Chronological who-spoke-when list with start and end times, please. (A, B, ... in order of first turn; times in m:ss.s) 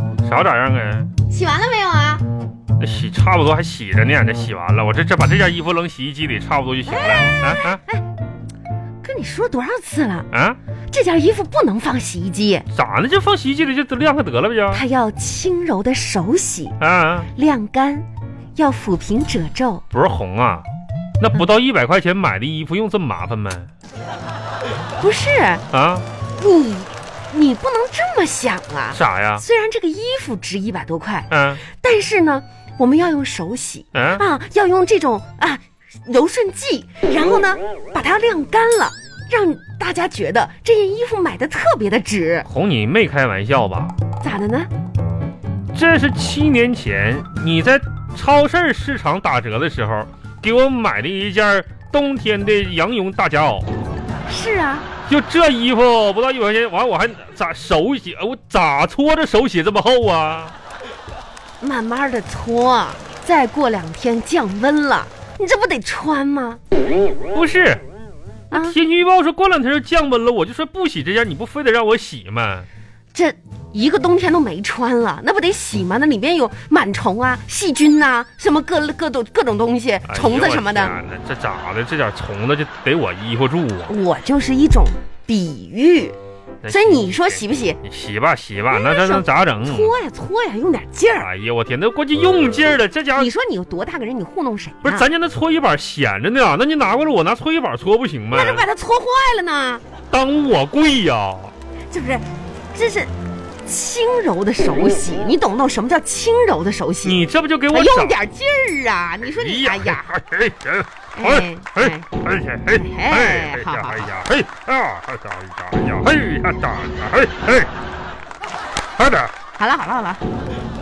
0:00.2-0:01.1 A
0:01.3-0:02.2 B
0:02.8-0:07.8 A
0:06.9-0:08.0 B
0:09.0-0:10.3 B
0:10.3-0:10.6 A
0:10.9-0:12.6 B
0:12.7-0:14.8 A
0:14.7-0:16.8 B
0:16.8-0:17.3 A
0:17.3-0:19.8 B
0:19.9-0:20.6 A
0:21.2-0:23.7 A
0:25.0-0:25.6 B
0:25.7-0:26.0 A
0:26.4-0:42.5 B
0:28.9-0:29.4 A
0:31.3-0:31.6 A
0:33.9-0:34.2 A
0:42.4-0:43.9 A
0:44.2-0:44.7 B
0:45.7-0:53.7 A
0:54.3-0:54.8 B
0:55.1-1:00.5 A
1:01.6-1:06.6 B
1:07.3-1:07.8 A
1:08.5-1:08.8 B
1:08.5-1:12.7 A
1:13.1-1:21.0 B
1:20.1-1:23.9 A
1:23.9-1:26.2 B
1:26.6-1:29.9 A
1:26.7-1:27.8 B
1:28.7-1:31.3 B
1:31.2-1:33.3 A
1:33.1-1:35.0 B
1:34.8-1:38.6 A
1:38.3-1:39.8 B
1:40.1-1:41.5 A
1:41.9-1:43.1 B
1:43.6-1:47.2 B
1:47.0-1:48.2 A
1:47.7-1:50.1 B
1:49.2-1:57.7 A
1:51.2-1:52.1 B
1:52.7-1:54.0 B
1:59.0-1:59.3 A
1:59.6-2:00.2 B